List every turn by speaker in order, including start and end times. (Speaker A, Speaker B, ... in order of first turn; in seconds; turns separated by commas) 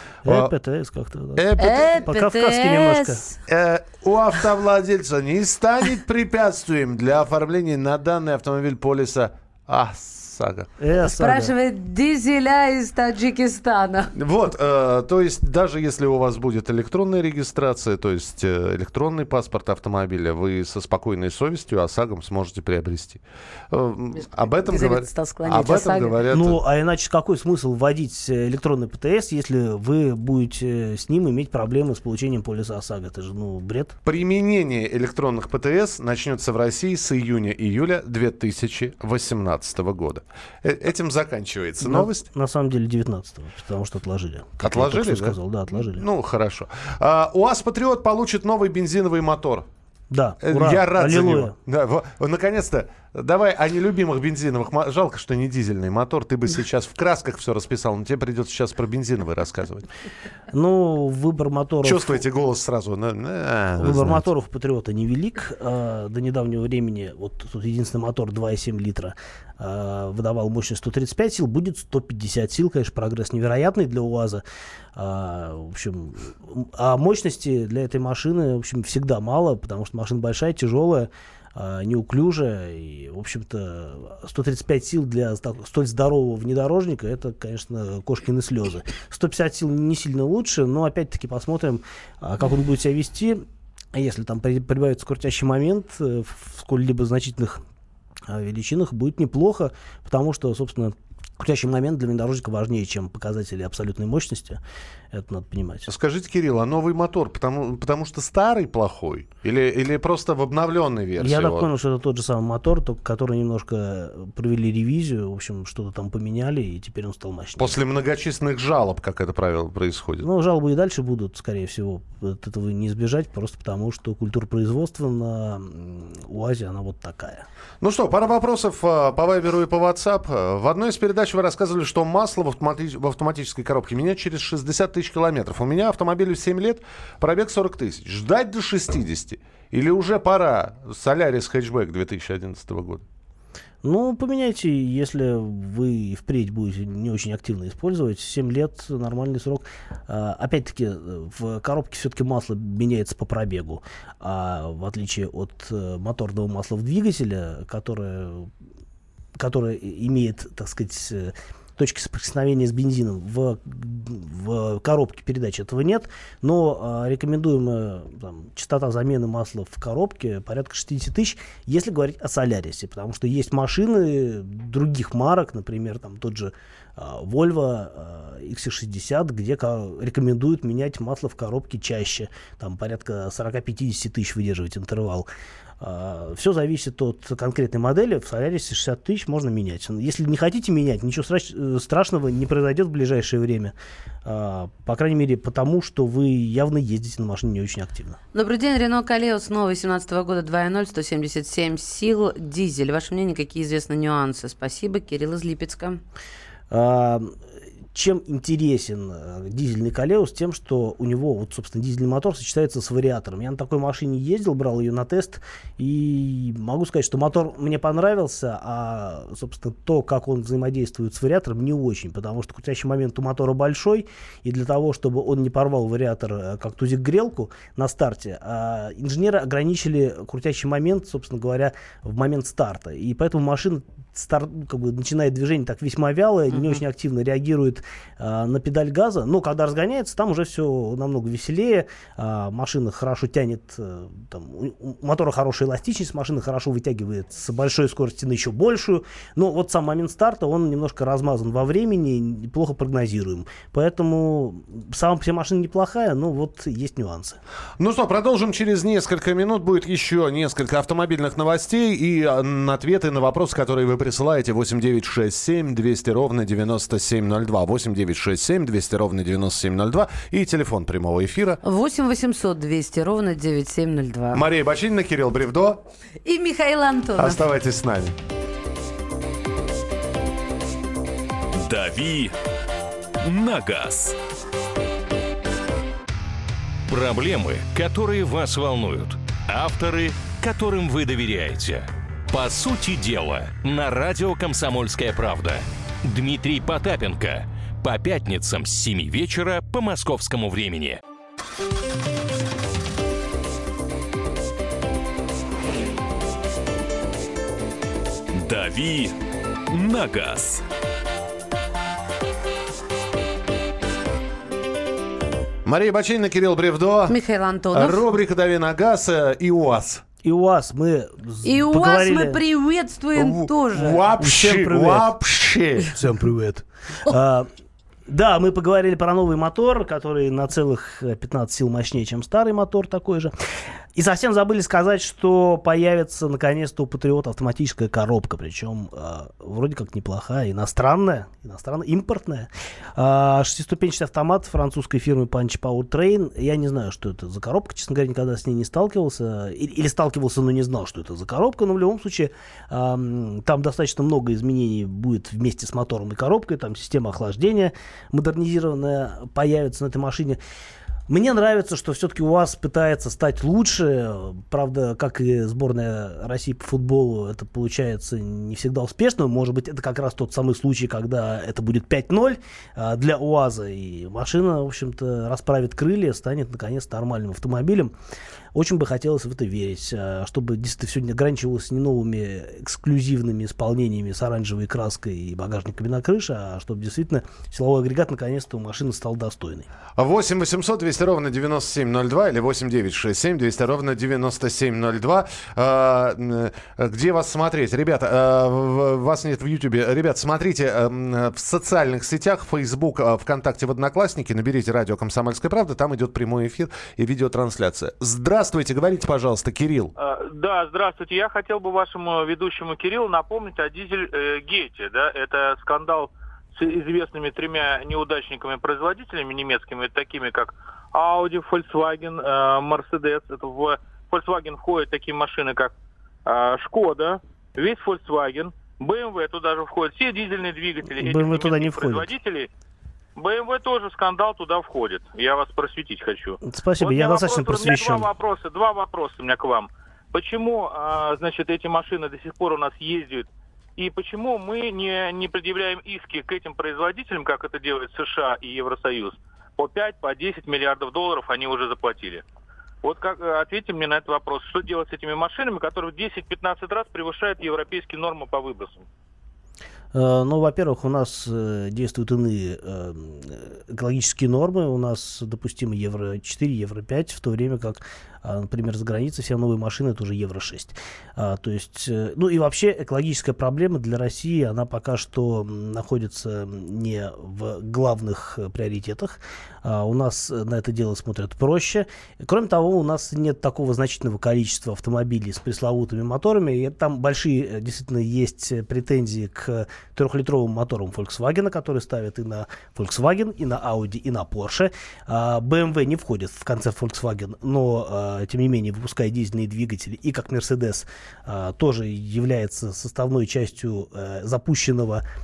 Speaker A: 0.2-3.2, Speaker B: 0.2-0.5, Speaker B: 1.4-2.0, Speaker C: 1.6-3.4, Speaker B: 3.5-10.7, Speaker A: 10.8-11.5, Speaker C: 11.0-14.1, Speaker B: 14.1-26.6, Speaker C: 24.2-26.2, Speaker A: 26.3-34.0, Speaker B: 34.0-42.2, Speaker A: 41.8-46.0, Speaker B: 44.6-49.6, Speaker A: 50.1-51.5, Speaker B: 50.4-59.9, Speaker A: 60.5-62.2, Speaker B: 61.8-64.2, Speaker A: 63.8-74.4, Speaker A: 74.9-97.6, Speaker A: 98.3-104.6, Speaker A: 105.1-105.9, Speaker B: 105.9-111.7, Speaker A: 111.2-117.8, Speaker B: 117.6-120.2, Speaker A: 120.2-127.5, Speaker B: 127.8-143.0, Speaker A: 143.8-158.5, Speaker A: 159.3-185.3, Speaker A: 185.8-198.2, Speaker C: 198.3-206.0, Speaker A: 206.7-207.4, Speaker A: 207.9-257.4, Speaker C: 236.5-236.8, Speaker B: 257.8-271.6, Speaker C: 271.6-274.4, Speaker B: 274.3-275.8, Speaker C: 276.2-277.4, Speaker B: 277.2-278.1, Speaker D: 281.5-282.3, Speaker D: 283.2-284.1, Speaker E: 286.9-301.0, Speaker D: 308.3-309.1, Speaker D: 309.7-310.6, Speaker B: 315.6-317.1, Speaker C: 317.1-318.0, Speaker B: 317.7-320.0, Speaker A: 320.2-322.4, Speaker C: 321.4-324.0, Speaker B: 323.1-325.9, Speaker A: 324.1-325.1, Speaker A: 325.9-327.5, Speaker A: 328.1-333.3, Speaker A: 333.9-360.4, Speaker A: 361.1-377.9, Speaker A: 378.5-389.7, Speaker B: 390.0-409.9, Speaker F: 410.0-425.7, Speaker F: 426.2-432.5, Speaker A: 430.9-432.1, Speaker F: 433.2-452.2, Speaker A: 436.4-438.1, Speaker F: 452.8-458.9, Speaker A: 459.9-505.0